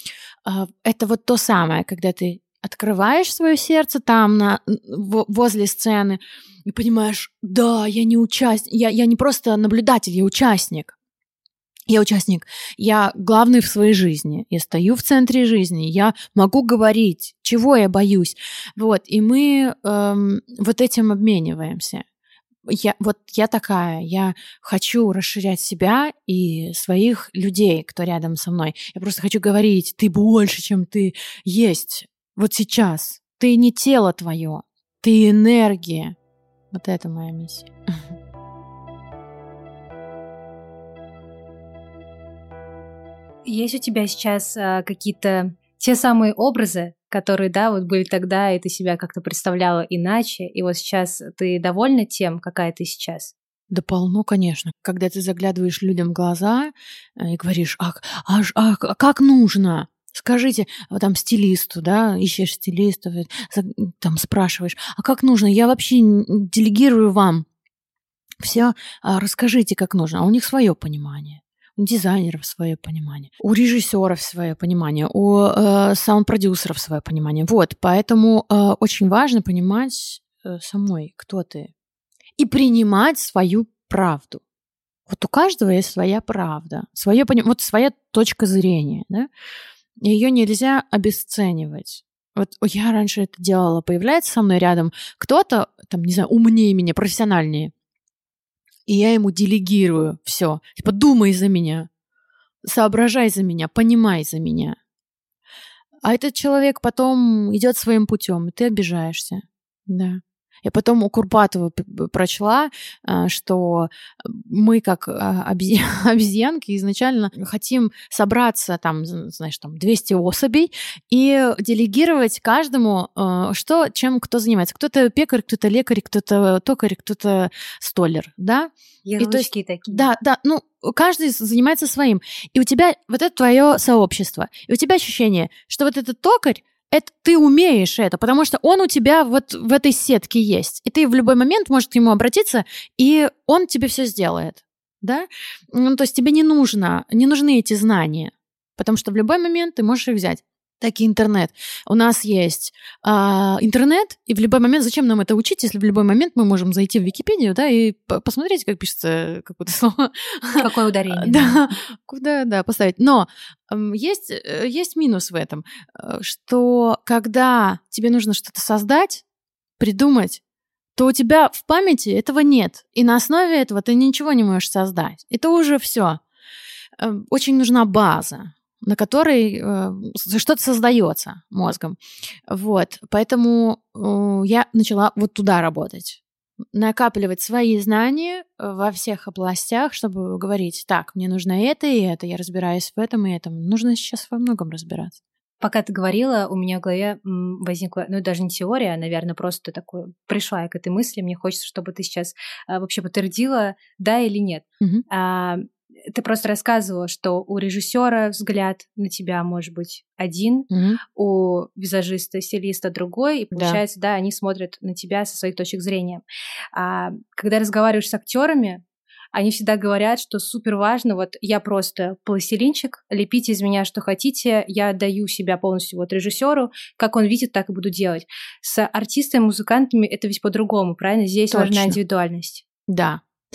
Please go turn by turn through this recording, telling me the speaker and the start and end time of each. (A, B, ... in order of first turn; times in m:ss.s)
0:00.4-0:10.9 A
0:11.9-0:22.0 A
0:22.6-0:36.2 A
0:36.7-0:38.1 A
0:43.4-0:53.3 B
0:53.7-1:07.4 A
1:08.4-1:21.7 A
1:22.4-1:24.4 A
1:25.1-1:29.3 A
1:30.0-1:37.7 A
1:38.9-1:41.9 A
1:42.6-1:44.8 A
1:46.0-2:49.2 A
2:09.0-2:10.1 B
2:40.6-2:41.7 B
2:49.8-2:50.4 A
2:51.0-2:56.2 A
2:57.0-3:06.2 A
3:06.7-3:15.2 A
3:15.6-3:38.8 B
3:30.7-3:31.0 A
3:33.5-3:33.8 A
3:39.3-3:52.6 B
3:51.5-3:52.0 A
3:52.9-3:53.2 A